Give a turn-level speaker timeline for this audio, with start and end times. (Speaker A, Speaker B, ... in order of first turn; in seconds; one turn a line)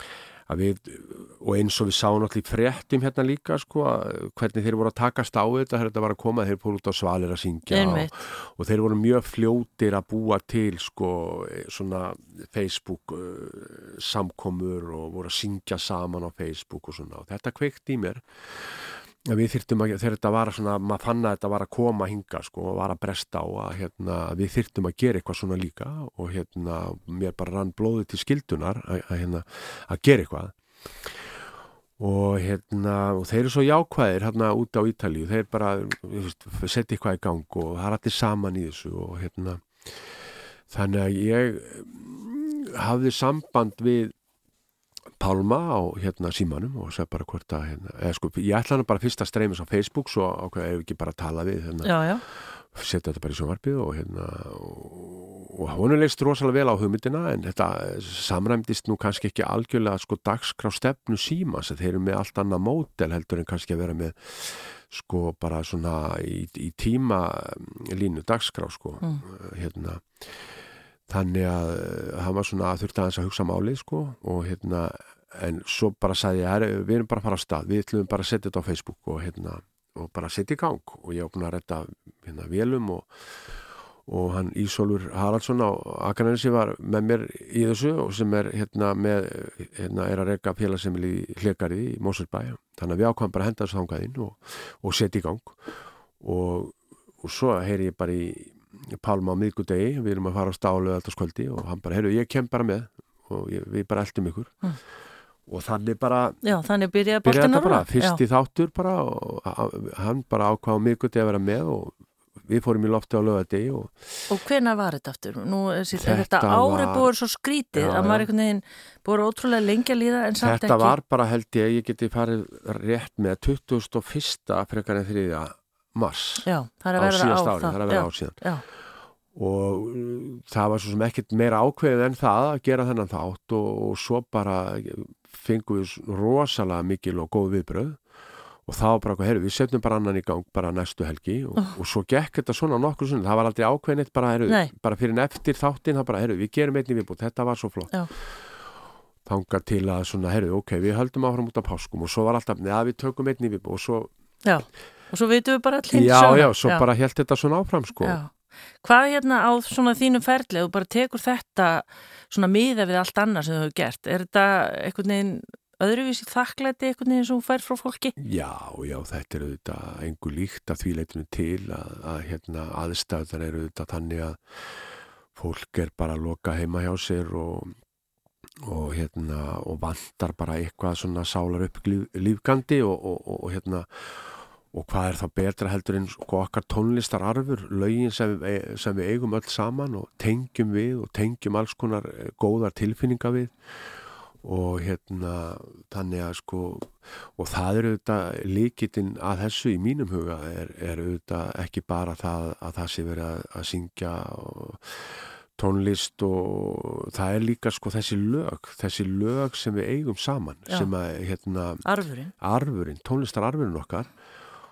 Speaker A: 0.5-31.1
Speaker B: 7.7-8.2
Speaker A: 32.0-40.1
Speaker A: 40.7-44.1
Speaker A: 45.2-70.5
Speaker B: 51.8-52.2
Speaker A: 71.1-83.1
Speaker A: 84.1-95.7
Speaker A: 96.2-104.5
Speaker A: 105.5-106.4
Speaker B: 106.4-108.2
Speaker A: 107.2-114.1
Speaker B: 114.3-121.0
Speaker A: 115.9-117.1
Speaker A: 117.7-118.3
Speaker A: 120.4-128.4
Speaker B: 126.4-128.6
Speaker A: 129.3-138.0
Speaker A: 138.7-148.3
Speaker A: 149.2-154.1
Speaker B: 154.4-156.8
Speaker A: 155.9-158.2
Speaker B: 158.0-158.3
Speaker B: 158.8-168.1
Speaker A: 168.2-174.4
Speaker A: 175.3-177.7
Speaker A: 178.6-193.5
Speaker A: 194.4-211.8
Speaker B: 211.8-212.3
Speaker A: 212.4-214.1